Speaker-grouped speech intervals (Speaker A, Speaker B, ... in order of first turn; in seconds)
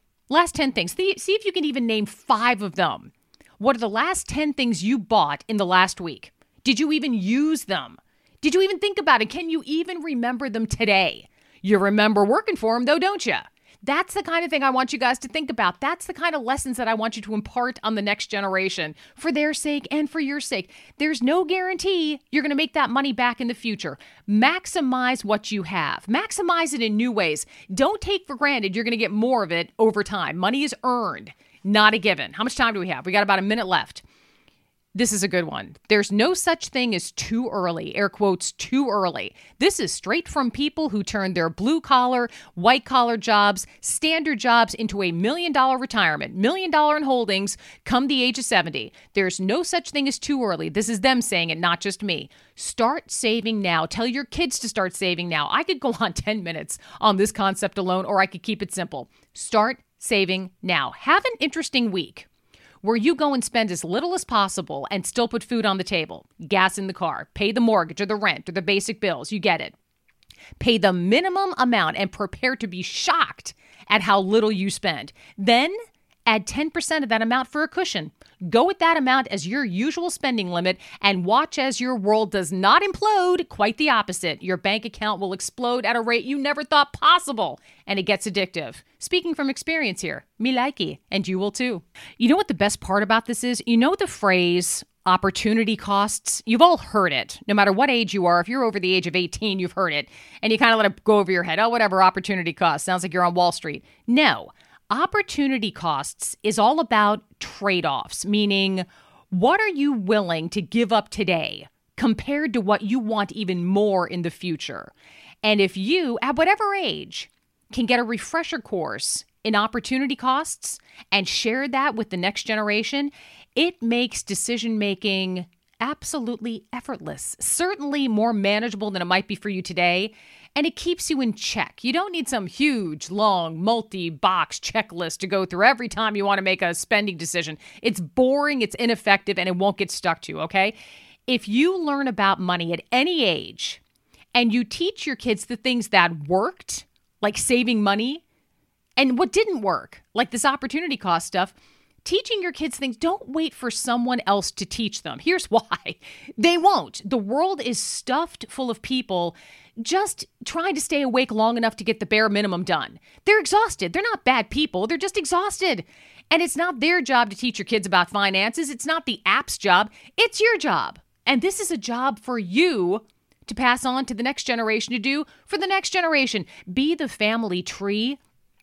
Speaker A: 0.3-34.0, 34.9-62.2, 62.8-69.8, 70.6-75.8, 76.3-114.9, 115.4-140.8, 141.3-143.8, 144.3-148.2, 149.0-178.2